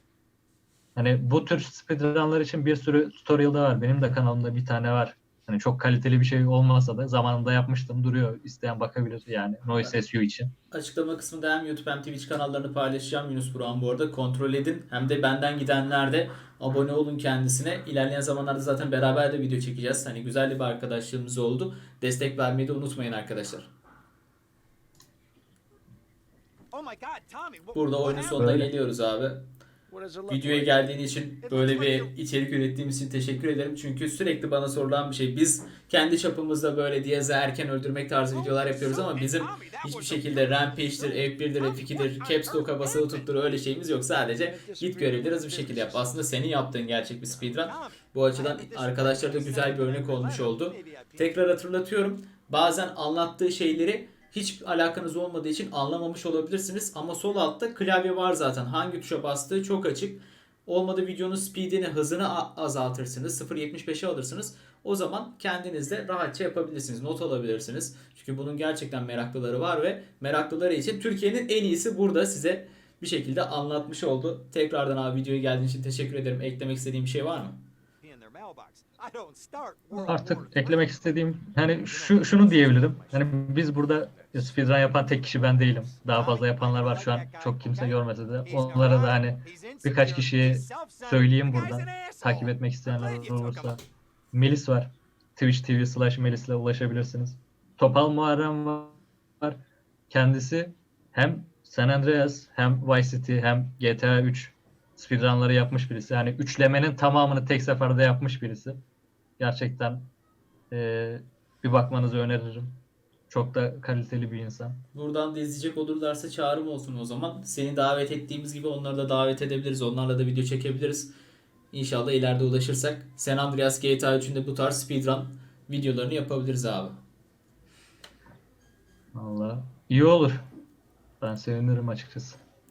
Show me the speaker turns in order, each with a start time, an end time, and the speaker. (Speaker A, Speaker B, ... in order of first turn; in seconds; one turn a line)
Speaker A: 0.9-10.5
Speaker B: 10.7-23.7
Speaker C: 26.7-28.5
Speaker B: 27.7-29.5
Speaker A: 28.4-28.7
Speaker C: 29.9-32.2
Speaker B: 30.3-77.6
Speaker C: 38.3-43.6
Speaker C: 44.4-46.5
Speaker C: 47.2-51.5
Speaker C: 78.0-84.7
Speaker A: 80.1-93.8
Speaker C: 85.6-93.8
Speaker A: 94.3-108.8
Speaker A: 109.4-110.1
Speaker A: 110.7-112.8
Speaker A: 113.3-114.8
Speaker B: 114.9-121.1
Speaker B: 121.7-127.0
Speaker A: 129.1-130.4
Speaker A: 131.2-132.4